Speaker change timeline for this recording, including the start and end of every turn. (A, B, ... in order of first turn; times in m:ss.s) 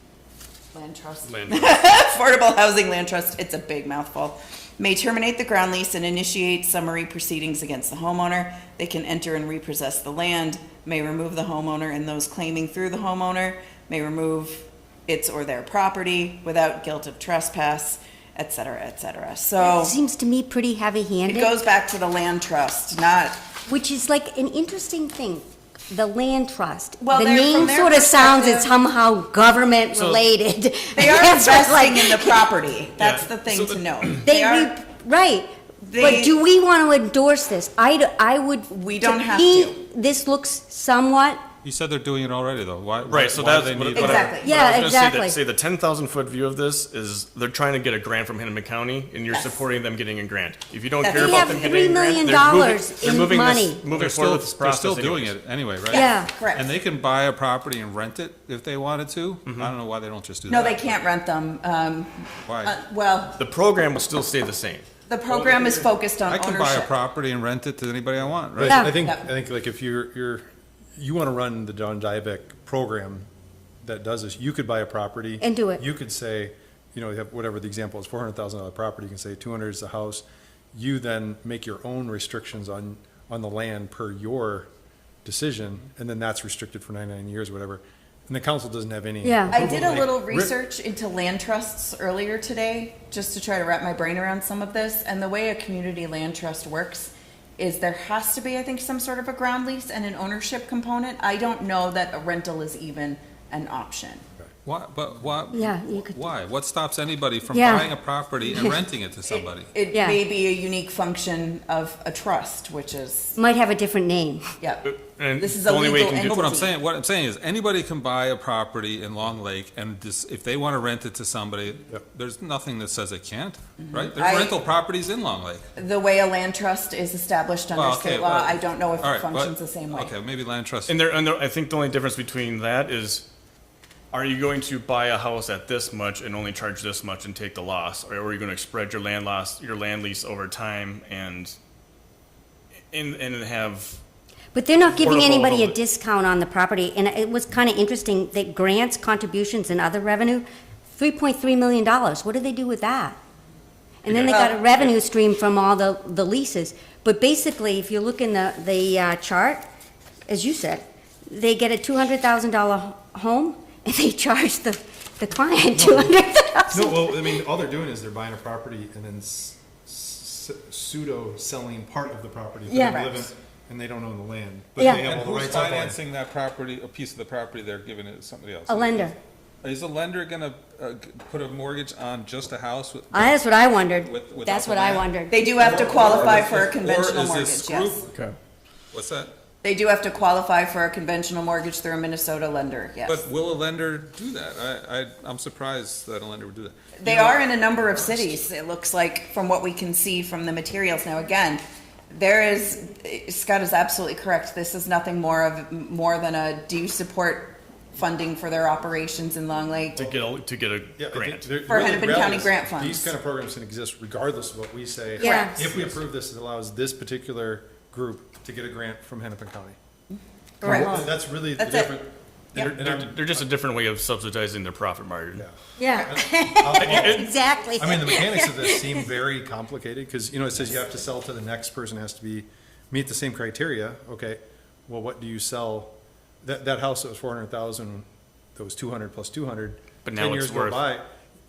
0:00.7-0:20.0 A
0:01.3-0:01.8 B
0:19.6-0:21.5 C
0:21.3-0:23.4 A
0:23.7-0:32.4 C
0:27.0-0:28.7 A
0:29.9-0:30.2 B
0:30.9-0:34.7 A
0:33.0-0:34.2 B
0:34.2-0:41.4 C
0:35.9-0:36.4 A
0:38.7-0:39.8 A
0:41.6-0:44.4 D
0:43.1-0:55.4 B
0:43.9-0:44.6 A
0:44.3-0:45.4 C
0:49.3-0:49.6 A
0:51.0-0:51.7 A
0:51.1-0:53.8 C
0:53.9-1:00.9 D
0:55.9-0:56.8 A
0:55.9-0:56.3 C
0:59.4-0:59.7 B
1:00.5-1:03.4 A
1:02.4-1:02.8 D
1:03.4-1:04.9 B
1:05.1-1:06.9 A
1:06.3-1:08.8 D
1:08.6-1:13.3 E
1:08.6-1:08.9 C
1:08.8-1:09.3 A
1:13.8-1:24.7 E
1:15.4-1:15.8 C
1:25.2-1:30.5 E
1:29.2-1:29.5 C
1:29.5-1:44.2 A
1:44.6-1:49.8 D
1:45.5-1:46.3 C
1:47.5-1:47.9 C
1:49.3-1:53.4 A
1:49.9-1:50.2 C
1:53.4-1:54.5 C
1:54.6-1:56.8 A
1:54.8-1:56.4 B
1:56.3-2:05.6 D
2:03.8-2:04.6 A
2:05.8-2:10.2 A
2:07.7-2:11.0 D
2:10.9-2:13.2 B
2:14.1-2:21.6 B
2:22.9-2:24.0 B
2:24.5-2:33.2 C
2:25.0-2:25.8 B
2:34.0-2:39.6 C
2:34.1-2:34.9 B
2:34.3-2:34.6 A
2:40.3-2:47.4 C
2:45.7-2:56.0 E
2:52.7-2:53.2 C
2:54.8-2:55.0 C
2:54.8-3:08.1 D
2:58.7-2:59.2 C
3:03.1-3:05.5 C
3:05.3-3:08.1 A
3:08.9-3:09.3 D
3:09.6-3:13.2 A
3:13.0-3:18.4 D
3:17.0-3:30.1 A
3:30.0-3:31.9 B
3:31.0-3:39.8 E
3:31.7-3:33.1 A
3:35.2-3:35.7 C
3:35.2-3:35.5 A
3:40.6-3:41.1 C
3:40.6-3:43.4 E
3:40.6-3:42.0 A
3:42.6-3:45.4 B
3:45.4-4:01.1 E
3:45.8-3:49.0 C
3:46.8-3:47.3 B
4:00.0-4:00.9 B